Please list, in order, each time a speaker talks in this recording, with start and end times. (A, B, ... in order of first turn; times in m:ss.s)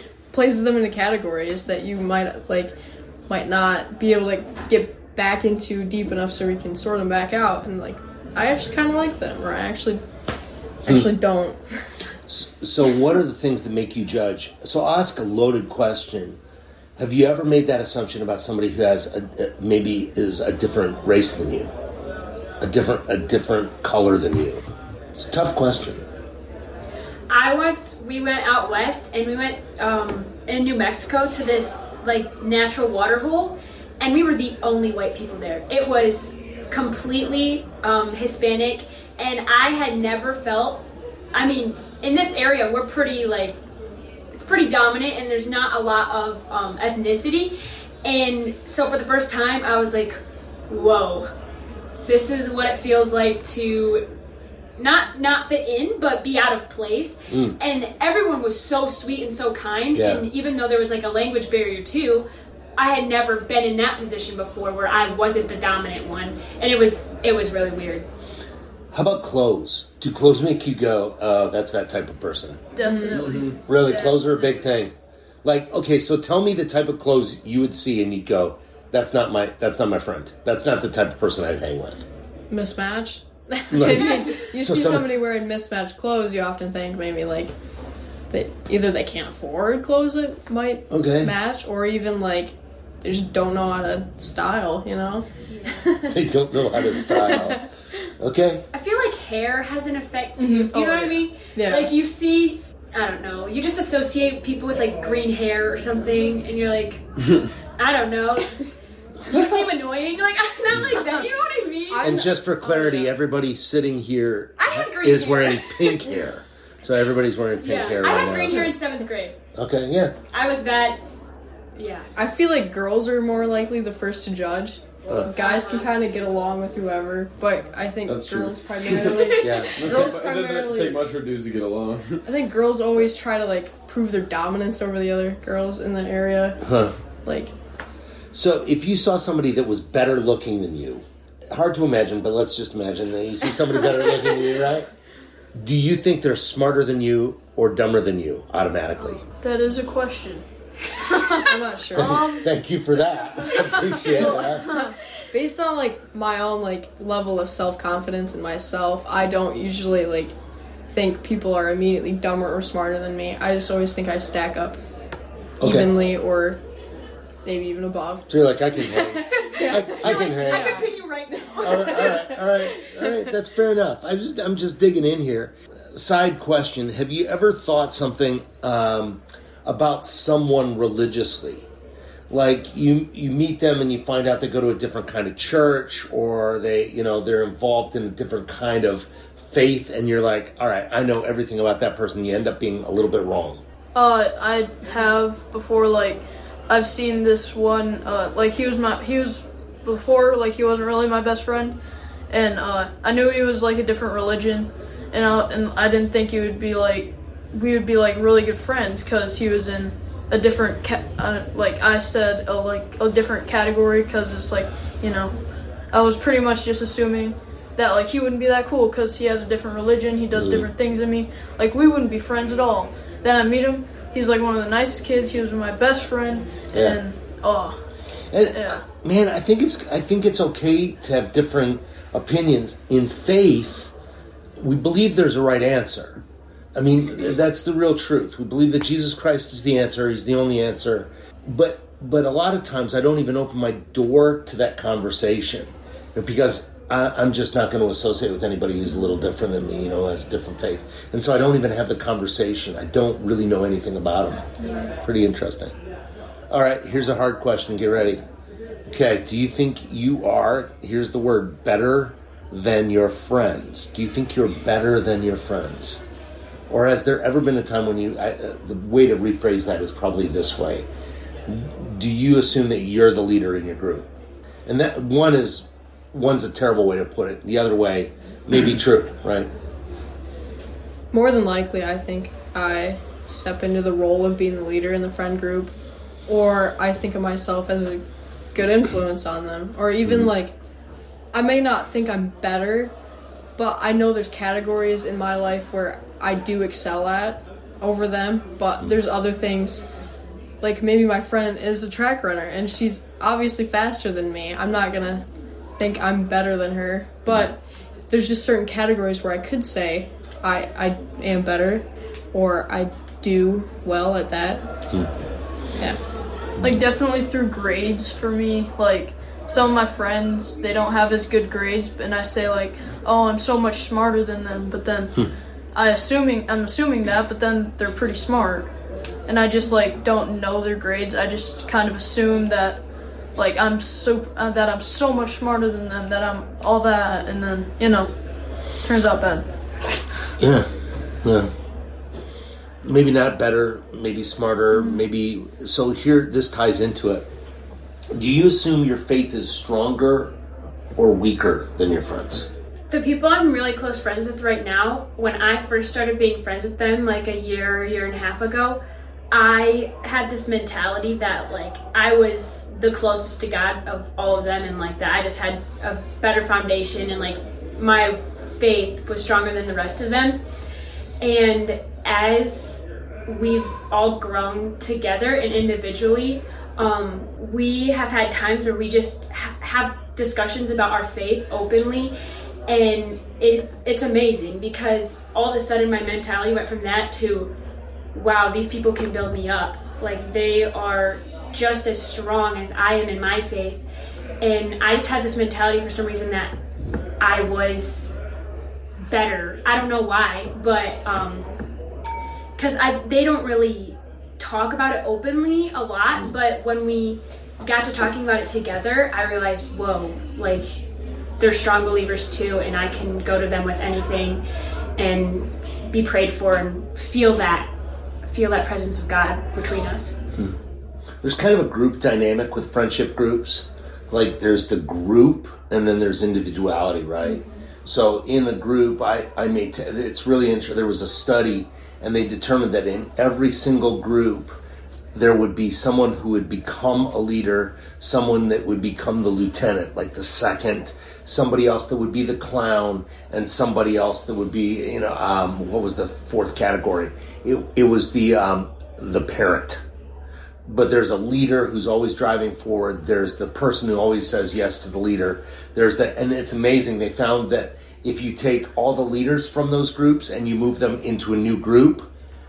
0:00.3-0:02.8 A
0:03.3-0:10.0 A
0:10.8-0:11.9 A
0:12.3-0:16.4 B
0:17.0-0:21.7 B
0:22.6-0:24.6 B
0:25.1-0:26.0 B
0:27.3-0:43.6 C
0:44.3-0:47.5 C
0:48.0-0:51.3 C
0:52.0-0:54.0 C
0:54.8-1:02.2 C
0:57.3-0:57.6 B
0:59.9-1:00.2 B
1:02.8-1:08.1 C
1:08.9-1:12.6 B
1:12.7-1:14.2 D
1:12.8-1:13.4 A
1:13.2-1:13.5 E
1:13.6-1:22.1 B
1:22.5-1:27.5 A
1:23.7-1:25.1 B
1:28.3-1:37.6 A
1:30.9-1:31.3 B
1:35.5-1:35.9 C
1:36.0-1:37.6 B
1:38.2-1:38.6 B
1:38.7-1:47.0 C
1:40.4-1:41.1 D
1:41.5-1:41.9 A
1:47.8-1:48.6 C
1:49.2-1:52.1 C
1:50.7-1:51.0 B
1:51.9-1:53.1 A
1:52.0-1:58.7 B
1:54.6-1:56.1 C
1:57.6-1:59.4 C
1:59.5-2:00.1 B
2:00.3-2:01.0 C
2:01.7-2:02.1 C
2:02.2-2:11.0 A
2:05.4-2:05.9 C
2:08.1-2:12.2 E
2:09.0-2:09.7 C
2:09.4-2:10.2 B
2:12.2-2:16.6 A
2:16.6-2:16.9 B
2:17.2-2:17.5 A
2:18.3-2:24.9 B
2:25.5-2:29.2 B
2:29.3-2:30.4 D
2:31.0-2:32.5 D
2:31.1-2:32.4 A
2:31.9-2:34.7 B
2:33.9-2:40.3 A
2:33.9-2:34.9 D
2:40.9-2:44.8 A
2:45.6-2:46.6 A
2:45.6-2:45.9 B
2:47.4-2:48.3 A
2:48.3-2:50.8 B
2:48.8-2:50.9 A
2:49.2-2:52.5 C
2:51.6-3:01.7 B
3:02.3-3:13.6 B
3:13.9-3:21.8 D
3:22.3-3:35.4 D
3:35.9-3:47.8 D
3:40.3-3:40.7 B
3:46.7-3:47.0 B
3:48.3-3:53.9 B
3:48.5-3:48.8 D
3:54.6-4:15.7 B
4:16.5-4:18.2 B
4:18.9-4:26.0 B
4:26.7-4:30.9 B
4:31.4-4:34.1 B
4:34.6-4:39.5 B
4:41.1-4:45.7 A
4:46.3-4:48.0 A
4:48.5-4:50.5 A
4:51.3-4:52.9 A
4:53.6-4:59.8 A
5:00.6-5:05.2 A
5:05.8-5:14.7 A
5:15.7-5:16.0 A
5:16.6-5:28.7 D
5:29.2-5:32.8 D
5:33.3-5:38.1 D
5:38.8-5:39.5 D
5:40.4-5:40.7 B
5:41.2-5:41.5 B
5:42.8-5:47.3 B
5:44.7-5:45.0 D
5:48.1-5:50.4 B
5:51.0-5:52.5 B
5:52.9-6:10.4 C
6:11.2-6:22.1 C
6:22.7-6:27.5 C
6:28.1-6:33.8 C
6:34.4-6:36.6 C
6:37.2-6:38.1 C
6:39.1-6:41.5 C
6:42.6-6:50.8 C
6:51.4-6:54.4 C
6:55.0-6:57.7 C
6:58.3-7:00.1 C
7:01.2-7:14.6 B
7:15.1-7:29.8 B
7:30.6-7:42.1 B